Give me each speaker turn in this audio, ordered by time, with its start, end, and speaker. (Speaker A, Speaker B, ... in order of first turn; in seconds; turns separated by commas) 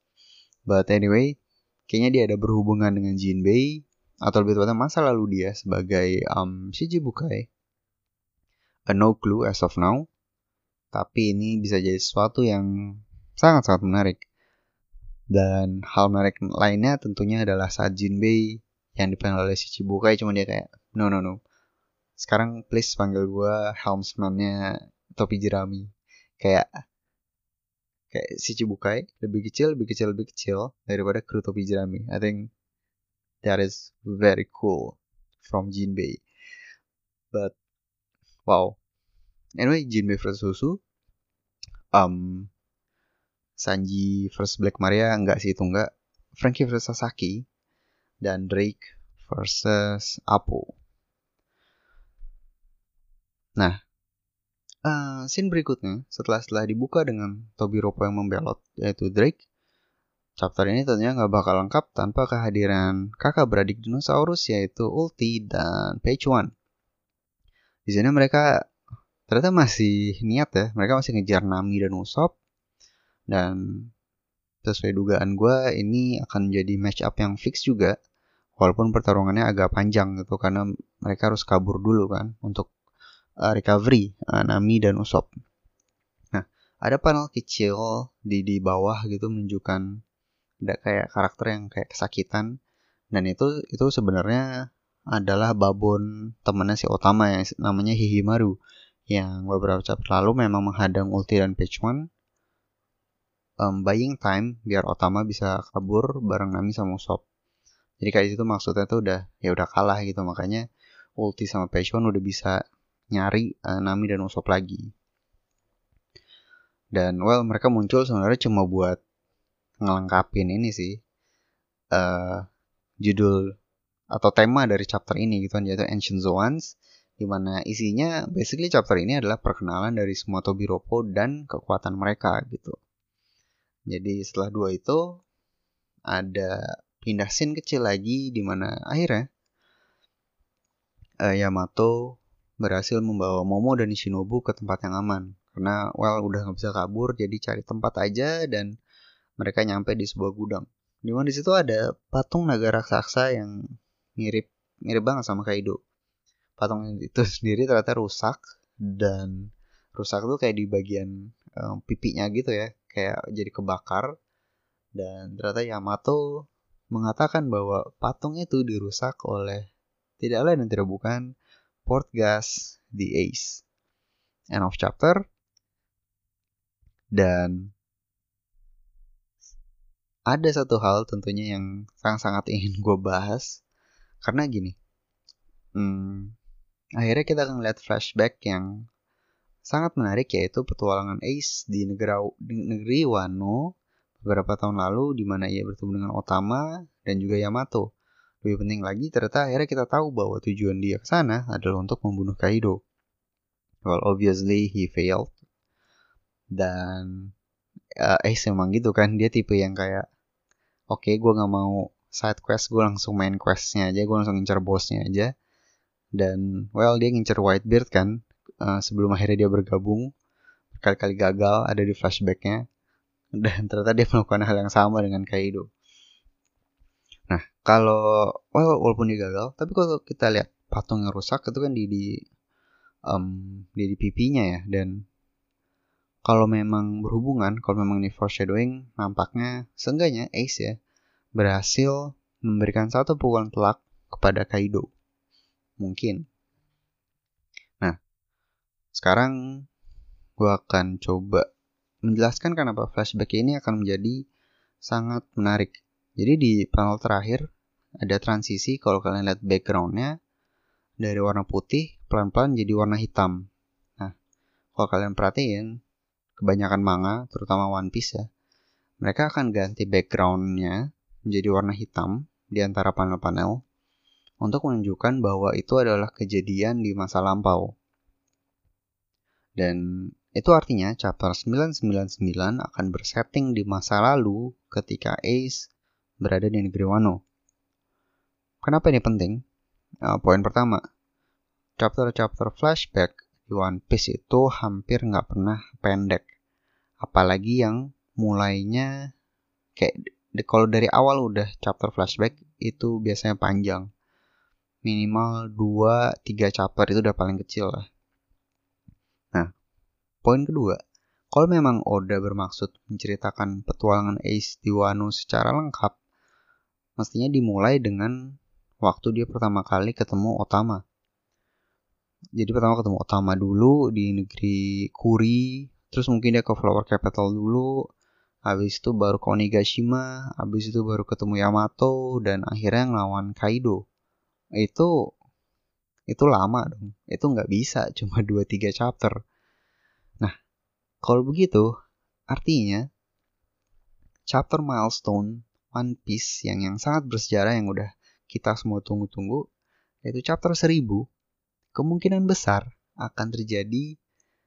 Speaker A: 0.7-1.3, Speaker A: 1.9-7.5, Speaker A: 8.9-10.0, Speaker A: 10.9-12.7, Speaker A: 13.4-14.2, Speaker A: 15.3-18.4, Speaker A: 19.0-21.4, Speaker A: 22.2-24.5, Speaker A: 25.1-25.9, Speaker A: 26.4-26.7, Speaker A: 28.1-32.4, Speaker A: 33.4-36.2, Speaker A: 38.5-38.8, Speaker A: 39.6-40.8, Speaker A: 41.9-42.5, Speaker A: 43.6-47.4, Speaker A: 48.2-50.7, Speaker A: 54.9-59.4, Speaker A: 60.4-66.5, Speaker A: 67.9-68.5, Speaker A: 69.3-72.3, Speaker A: 73.3-73.6, Speaker A: 74.6-77.9, Speaker A: 78.6-82.7, Speaker A: 83.5-85.3, Speaker A: 86.3-89.8, Speaker A: 90.7-92.5, Speaker A: 93.1-94.4, Speaker A: 95.1-98.5, Speaker A: 99.1-102.0, Speaker A: 103.6-107.2, Speaker A: 108.0-110.6, Speaker A: 111.2-112.5, Speaker A: 113.1-114.9, Speaker A: 116.9-119.0, Speaker A: 119.8-121.0, Speaker A: 121.9-122.5, Speaker A: 123.0-123.4, Speaker A: 124.1-132.8, Speaker A: 133.9-135.0, Speaker A: 136.1-139.2, Speaker A: 141.2-148.7, Speaker A: 149.4-153.5, Speaker A: 154.2-155.8, Speaker A: 156.6-164.1, Speaker A: 164.9-166.2, Speaker A: 166.9-169.6, Speaker A: 170.2-171.2, Speaker A: 171.8-173.6, Speaker A: 174.5-175.2, Speaker A: 177.1-177.6, Speaker A: 180.3-183.6, Speaker A: 184.2-184.7, Speaker A: 185.8-186.3, Speaker A: 187.0-188.7, Speaker A: 189.7-193.6, Speaker A: 194.2-197.8, Speaker A: 198.4-202.8, Speaker A: 203.8-205.3, Speaker A: 206.6-207.3, Speaker A: 208.0-210.0, Speaker A: 210.9-215.3, Speaker A: 216.2-220.1, Speaker A: 220.7-222.6, Speaker A: 223.4-225.7, Speaker A: 227.3-232.1, Speaker A: 233.1-234.9, Speaker A: 236.2-240.7, Speaker A: 241.4-244.9, Speaker A: 245.8-246.2, Speaker A: 249.0-249.3, Speaker A: 250.4-251.4, Speaker A: 252.1-254.2, Speaker A: 254.9-257.4, Speaker A: 258.0-260.1, Speaker A: 261.0-263.4, Speaker A: 264.8-265.7, Speaker A: 266.4-268.2, Speaker A: 269.0-270.8, Speaker A: 271.3-273.6, Speaker A: 274.4-277.7, Speaker A: 280.3-285.7, Speaker A: 286.2-287.2, Speaker A: 288.6-289.4, Speaker A: 290.1-290.8, Speaker A: 291.8-296.2, Speaker A: 297.0-298.9, Speaker A: 299.8-303.9, Speaker A: 304.9-307.9, Speaker A: 310.2-310.8, Speaker A: 311.3-315.9, Speaker A: 317.0-318.1, Speaker A: 318.8-320.8, Speaker A: 322.4-327.7, Speaker A: 328.5-333.8, Speaker A: 334.6-334.9, Speaker A: 336.1-339.1, Speaker A: 341.1-341.6, Speaker A: 342.3-342.8, Speaker A: 344.3-349.4, Speaker A: 350.0-351.0, Speaker A: 351.8-353.9